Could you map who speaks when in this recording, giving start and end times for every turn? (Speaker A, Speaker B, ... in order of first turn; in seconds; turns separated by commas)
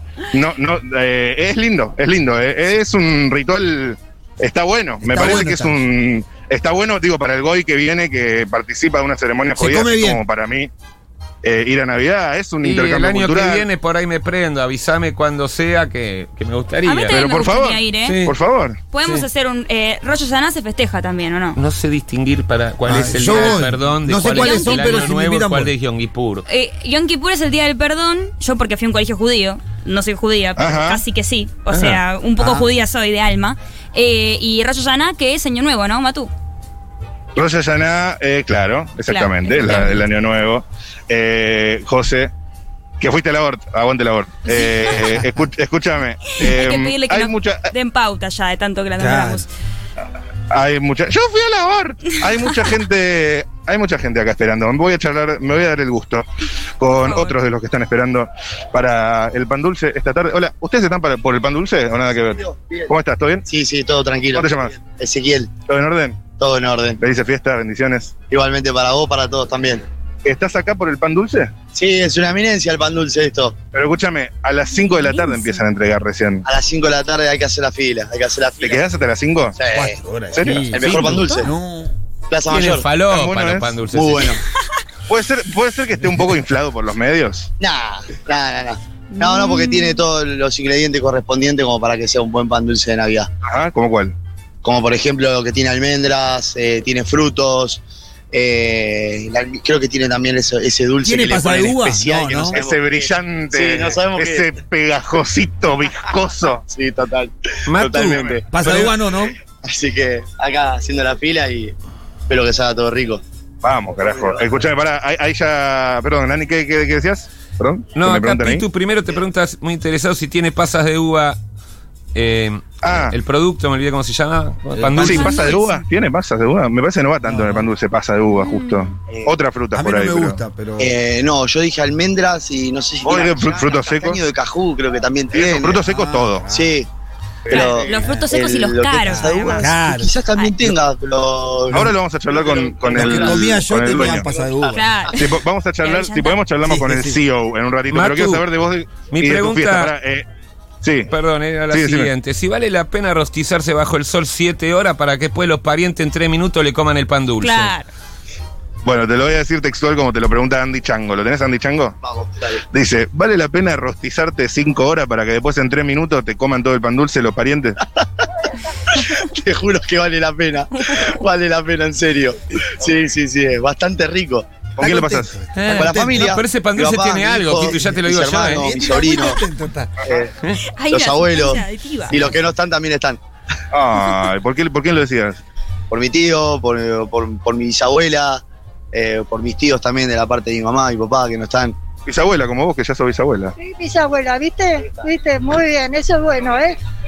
Speaker A: 0.3-10.7, Speaker B: 5.0-5.8, Speaker B: 9.6-10.2, Speaker A: 11.4-13.7, Speaker C: 12.6-17.2, Speaker D: 16.8-18.2, Speaker A: 17.1-18.8, Speaker C: 18.0-18.4, Speaker D: 18.9-21.6, Speaker C: 21.6-26.4, Speaker B: 22.9-25.7, Speaker D: 24.3-25.0, Speaker D: 26.5-36.3, Speaker A: 30.6-31.0, Speaker B: 32.4-32.7, Speaker A: 37.4-42.3, Speaker D: 39.1-40.0, Speaker A: 43.0-47.7, Speaker D: 44.5-45.0, Speaker D: 46.3-49.5, Speaker B: 49.0-49.4, Speaker A: 50.5-56.2, Speaker A: 56.8-63.4, Speaker D: 57.0-57.3, Speaker E: 62.3-62.9, Speaker E: 63.5-65.5, Speaker A: 64.3-64.8, Speaker A: 65.7-66.2, Speaker E: 66.4-67.0, Speaker A: 67.0-68.1, Speaker E: 68.3-69.8, Speaker A: 70.2-71.5, Speaker E: 71.7-73.6, Speaker A: 73.7-76.4, Speaker D: 74.8-75.6, Speaker E: 76.4-78.9, Speaker A: 78.6-79.5, Speaker E: 79.5-80.0, Speaker B: 79.7-81.9, Speaker A: 80.3-81.1, Speaker E: 80.5-81.5, Speaker E: 82.3-82.9, Speaker C: 82.5-84.4, Speaker A: 83.0-83.8, Speaker E: 83.9-84.4, Speaker A: 85.1-87.5, Speaker E: 87.6-93.3, Speaker D: 89.1-90.0, Speaker A: 93.4-94.1, Speaker E: 94.6-104.5, Speaker B: 101.0-102.6, Speaker A: 102.5-106.6, Speaker E: 106.7-108.4, Speaker C: 107.7-108.9, Speaker B: 108.5-109.3, Speaker E: 109.6-111.7, Speaker E: 112.3-113.2, Speaker A: 113.6-118.6, Speaker E: 114.0-114.6, Speaker C: 118.0-121.4, Speaker C: 122.1-125.5, Speaker A: 122.8-123.2, Speaker B: 124.8-125.2, Speaker A: 124.9-130.4, Speaker D: 125.0-125.8, Speaker B: 127.2-127.7, Speaker D: 128.3-128.9, Speaker E: 129.1-129.4, Speaker B: 129.7-130.9, Speaker E: 130.8-135.8, Speaker A: 133.0-134.2, Speaker A: 135.3-136.5, Speaker B: 135.8-136.7, Speaker E: 136.5-136.9, Speaker E: 137.5-144.6, Speaker D: 137.5-139.7, Speaker B: 138.0-138.3, Speaker B: 139.1-140.1, Speaker A: 141.7-144.3, Speaker B: 142.8-144.9, Speaker D: 144.7-146.4, Speaker A: 145.1-150.2, Speaker B: 146.6-147.2, Speaker C: 147.9-148.4, Speaker C: 149.1-149.9, Speaker A: 150.8-151.1, Speaker C: 151.1-157.7, Speaker A: 151.7-152.1, Speaker D: 157.4-157.9, Speaker A: 158.8-162.0, Speaker E: 162.0-162.6, Speaker A: 162.7-167.8, Speaker E: 168.9-174.5, Speaker D: 170.8-171.1, Speaker A: 174.8-175.3, Speaker B: 174.8-176.3, Speaker C: 175.6-178.7, Speaker E: 175.7-179.4, Speaker B: 177.8-179.9, Speaker E: 180.0-180.3, Speaker D: 180.8-182.2, Speaker E: 180.9-183.2, Speaker A: 183.7-185.4, Speaker E: 185.9-191.8, Speaker A: 192.0-193.5, Speaker F: 193.6-196.8